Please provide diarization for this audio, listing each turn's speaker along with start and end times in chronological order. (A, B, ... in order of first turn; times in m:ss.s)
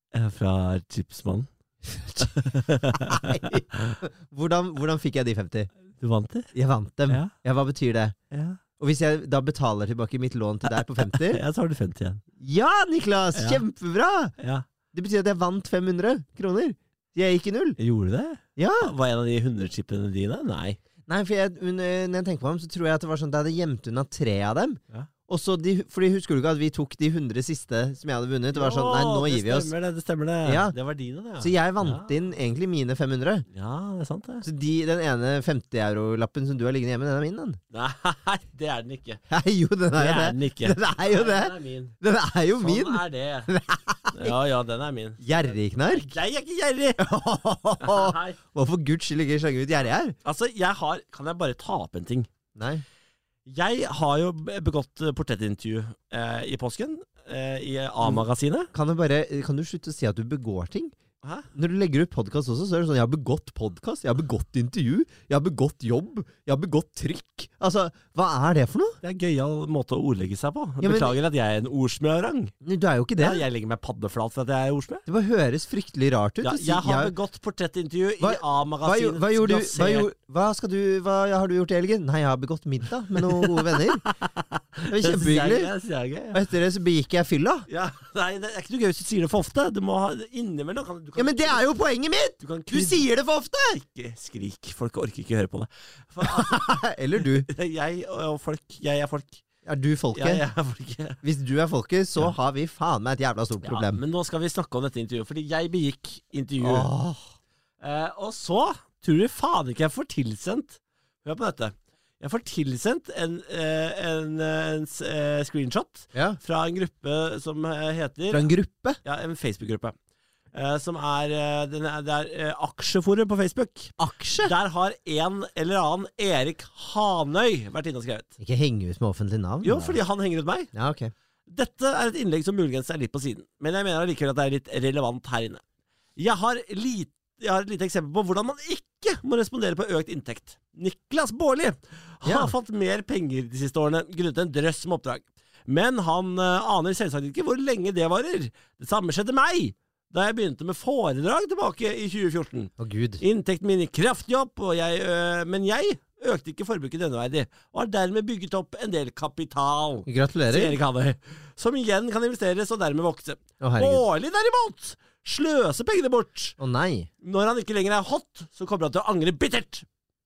0:00.1-0:01.5 A
0:02.0-0:02.3 B
0:02.2-0:04.0 A
0:03.0-0:05.7 B
0:06.0-0:06.5 A
0:06.5-0:08.1 B
0:08.3-0:08.6 A
0:08.8-0:11.4 B
0:10.6-0:12.2 A
0:12.4-0:14.3 B
0:13.3-0:13.6 A
0:14.4-0:14.6 A
0:14.9-0:17.8 B
0:17.8-0:20.8 A
0:18.6-0:18.9 B
0:21.1-0:29.7 B
0:28.5-0:32.1 A
0:30.4-0:30.8 B
0:31.4-0:33.4 B
0:33.5-0:34.4 A
0:34.4-0:37.6 B
0:37.7-0:39.2 A
0:39.3-0:44.3 B
0:39.9-0:42.0 A
0:42.6-0:43.5 A
0:44.1-0:45.2 A
0:45.2-0:46.1 B
0:45.9-0:47.1 A
0:47.0-0:50.1 B
0:47.8-0:48.4 A
0:50.2-0:52.3 A
0:52.6-0:52.8 B
0:53.4-0:58.7 A
0:58.7-1:00.9 B
1:01.2-1:01.5 A
1:01.5-1:09.0 B
1:09.0-1:12.5 A
1:10.8-1:11.2 B
1:12.6-1:13.4 B
1:13.2-1:15.0 A
1:15.0-1:17.1 B
1:16.4-1:20.1 A
1:18.2-1:24.0 B
1:23.1-1:26.4 A
1:24.9-1:25.7 B
1:26.3-1:27.7 B
1:27.7-1:31.6 A
1:31.2-1:33.8 B
1:32.4-1:33.0 A
1:33.8-1:36.6 A
1:36.2-1:37.5 B
1:37.5-1:39.4 A
1:39.6-1:40.4 B
1:40.1-1:41.2 A
1:41.2-1:44.0 B
1:43.6-1:46.9 A
1:46.6-1:47.2 B
1:47.8-1:58.5 A
1:56.1-1:56.4 B
1:58.3-1:59.0 B
1:59.0-1:59.9 A
2:00.5-2:08.3 A
2:04.0-2:04.5 B
2:08.4-2:10.0 B
2:09.6-2:10.7 A
2:10.7-2:11.1 B
2:11.5-2:15.6 A
2:16.2-2:46.6 A
2:22.2-2:22.5 B
2:32.8-2:33.2 B
2:40.1-2:40.8 B
2:43.6-2:44.0 B
2:46.6-2:47.1 B
2:47.2-2:49.8 A